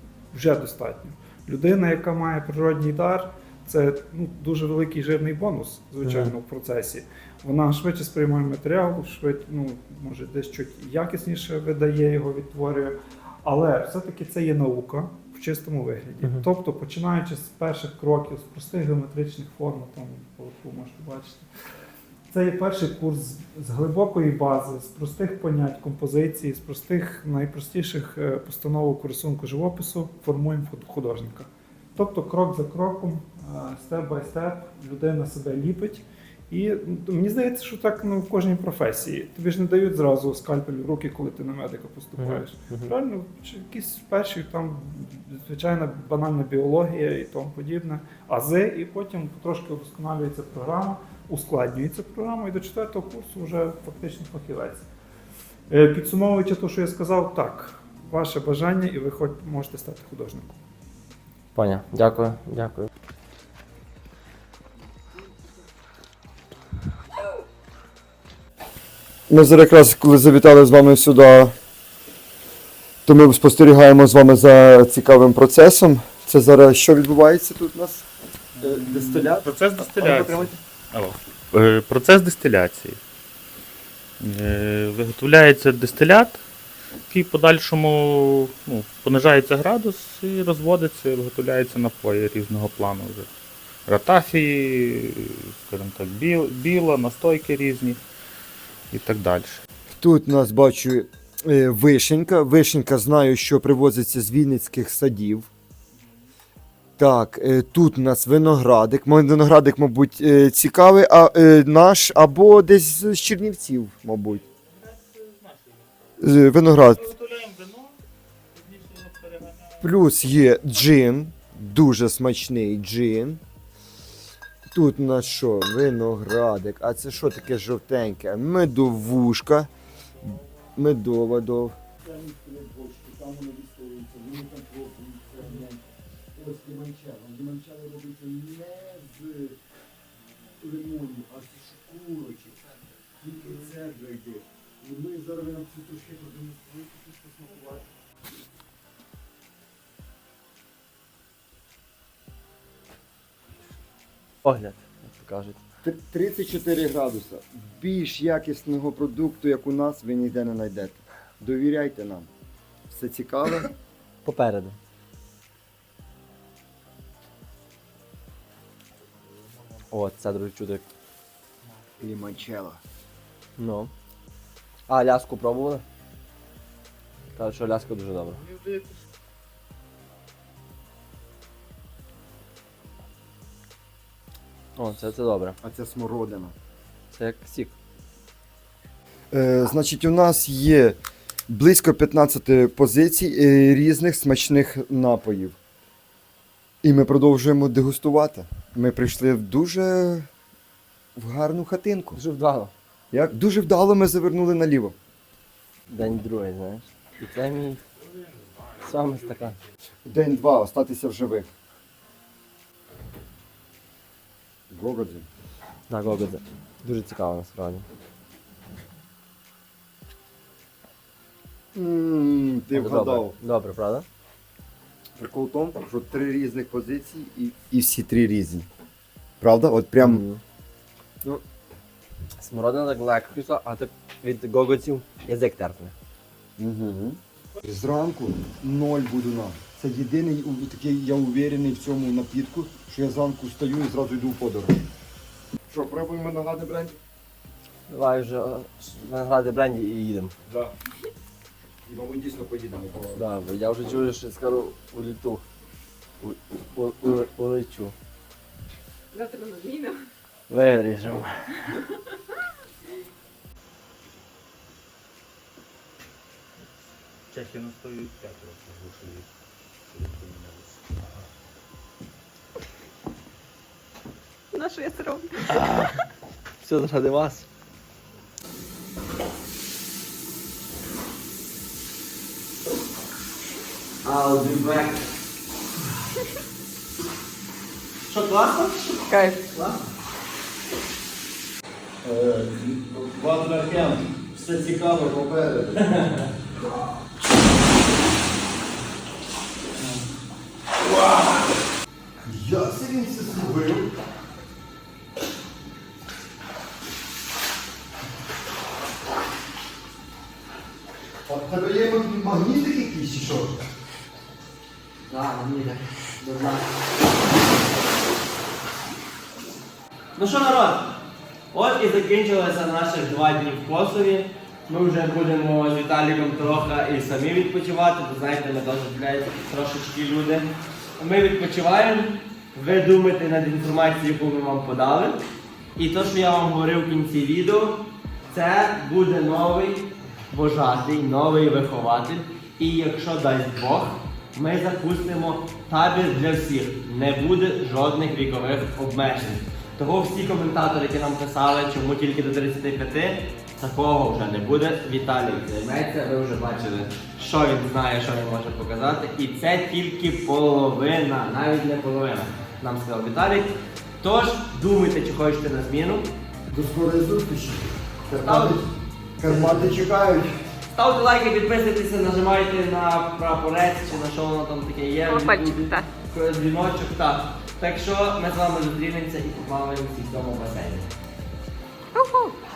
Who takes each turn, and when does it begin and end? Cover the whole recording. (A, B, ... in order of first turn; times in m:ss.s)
0:00.3-0:21.5 A
0:06.0-0:06.3 B
0:16.2-0:16.5 B
0:22.3-0:54.8 A
0:42.2-0:42.9 B
0:55.7-1:00.6 A
1:01.5-1:02.9 B
1:09.3-1:11.5 C
1:13.0-1:18.0 C
1:18.6-1:23.0 D
1:18.6-1:20.5 C
1:24.2-1:26.4 D
1:27.1-1:33.3 D
1:33.9-1:38.0 D
1:38.9-1:39.6 D
1:40.0-1:45.5 C
1:47.0-1:54.4 C
1:54.5-1:55.9 D
1:56.2-1:57.1 C
1:56.9-1:58.0 D
1:58.6-1:59.8 D
1:59.8-2:03.4 C
2:04.7-2:09.7 C
2:10.8-2:19.6 C
2:20.6-2:28.0 C
2:34.4-2:35.6 B
2:35.8-2:42.3 C
2:42.9-2:43.7 C
2:44.2-2:44.8 B
2:49.9-2:50.9 B
2:52.0-2:52.8 C
2:53.6-2:53.9 B
2:54.9-2:55.8 B
2:57.3-2:58.6 B
3:04.8-3:05.6 B
3:05.6-3:06.6 C
3:07.1-3:07.8 B
3:09.3-3:15.6 C
3:16.8-3:20.3 C
3:21.2-3:22.2 C
3:22.1-3:22.7 B
3:23.1-3:25.0 C
3:25.9-3:27.8 B
3:28.8-3:29.6 B
3:30.0-3:31.5 C
3:34.7-3:35.3 C
3:35.9-3:37.8 B
3:41.7-3:43.4 C
3:42.7-3:44.1 B
3:45.2-3:48.7 C
3:49.4-3:50.2 C
3:50.0-3:50.4 B
3:52.4-3:55.9 B
3:56.6-4:04.8 C
4:05.7-4:07.0 C
4:07.9-4:10.3 B
4:10.5-4:10.7 C
4:11.8-4:13.2 C
4:13.1-4:15.4 B
4:16.2-4:17.9 B
4:19.1-4:20.0 E
4:20.5-4:21.6 B
4:27.3-4:29.3 D
4:29.9-4:30.8 D
4:34.5-4:35.5 E
4:35.5-4:35.9 B
4:36.6-4:37.4 B
4:44.0-4:45.0 B
4:48.1-4:49.8 B
4:49.1-4:49.4 E
4:52.0-4:55.8 C
4:55.8-4:56.2 B
5:02.2-5:03.9 C
5:11.2-5:13.6 C
5:15.1-5:16.6 B
5:20.2-5:20.9 B
5:21.5-5:35.2 B
5:35.8-5:37.8 B
5:38.3-6:06.1 B
6:06.5-6:08.7 C
6:08.1-6:08.6 B
6:09.2-6:10.4 C
6:09.2-6:09.8 B
6:10.7-6:20.9 B
6:15.0-6:15.9 E
6:22.0-6:22.3 E